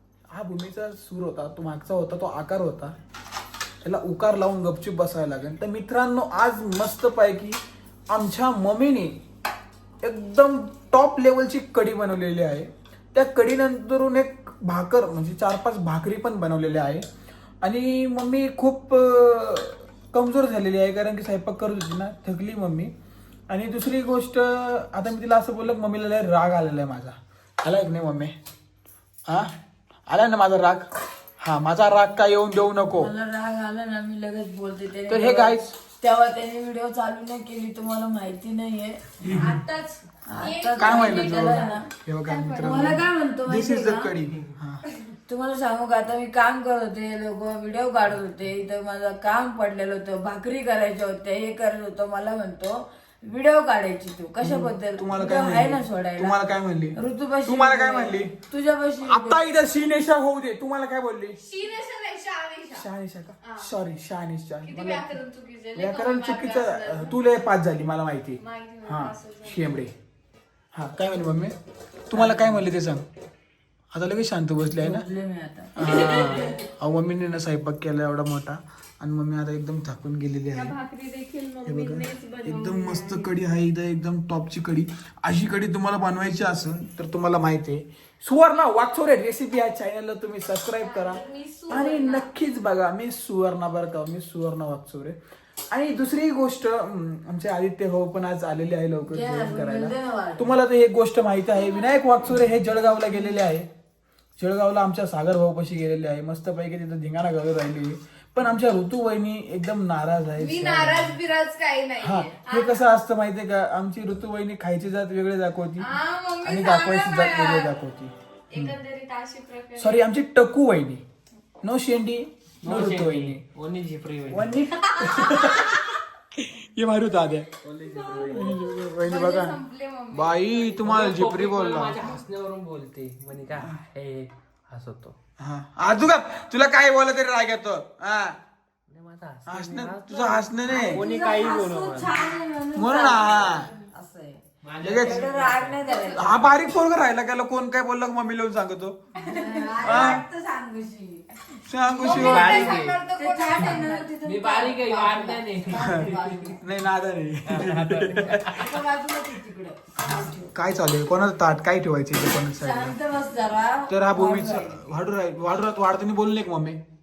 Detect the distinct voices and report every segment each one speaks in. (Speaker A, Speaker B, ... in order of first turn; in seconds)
Speaker A: 0.3-3.0, 3.8-7.6, 8.1-9.2, 10.0-17.1, 17.6-22.9, 23.5-28.3, 29.3-29.5, 30.1-33.1, 35.1-35.7, 40.8-44.8, 54.4-58.3, 59.0-61.4, 62.7-65.1, 65.7-69.9, 70.7-71.5, 72.1-73.0, 73.9-75.0, 75.8-80.8, 81.6-95.2, 95.7-103.7, 104.4-111.2, 112.0-115.9, 116.4-118.7, 119.8-121.0, 121.6-123.4, 124.3-127.5, 128.2-129.6, 130.1-132.1, 133.6-133.8, 135.4-138.4, 139.4-141.0, 142.8-143.7, 144.8-145.2, 146.1-149.0, 149.8-150.2, 151.7-152.8, 155.7-158.6, 160.5-163.0, 163.9-166.8
Speaker B: 32.9-39.1, 40.3-41.9, 42.6-44.1, 45.3-56.4, 56.9-59.5, 72.1-72.6, 74.7-76.3, 99.0-100.5, 140.7-144.4, 144.9-146.6, 149.2-151.3, 152.0-156.6, 158.2-160.5, 162.4-164.8
Speaker C: 39.3-43.0, 61.4-62.9, 63.4-63.7, 64.6-67.2, 68.4-69.8, 76.0-76.4, 80.5-83.3, 90.8-92.3, 110.4-112.9, 115.8-117.7, 118.5-120.0, 125.0-125.8, 127.9-128.4, 129.0-130.8, 143.5-143.7, 145.8-146.5, 151.9-154.6
Speaker D: 122.6-124.5, 127.6-128.6, 130.8-135.1, 138.9-142.3, 144.6-145.8, 152.0-153.0, 153.6-156.5, 157.5-158.6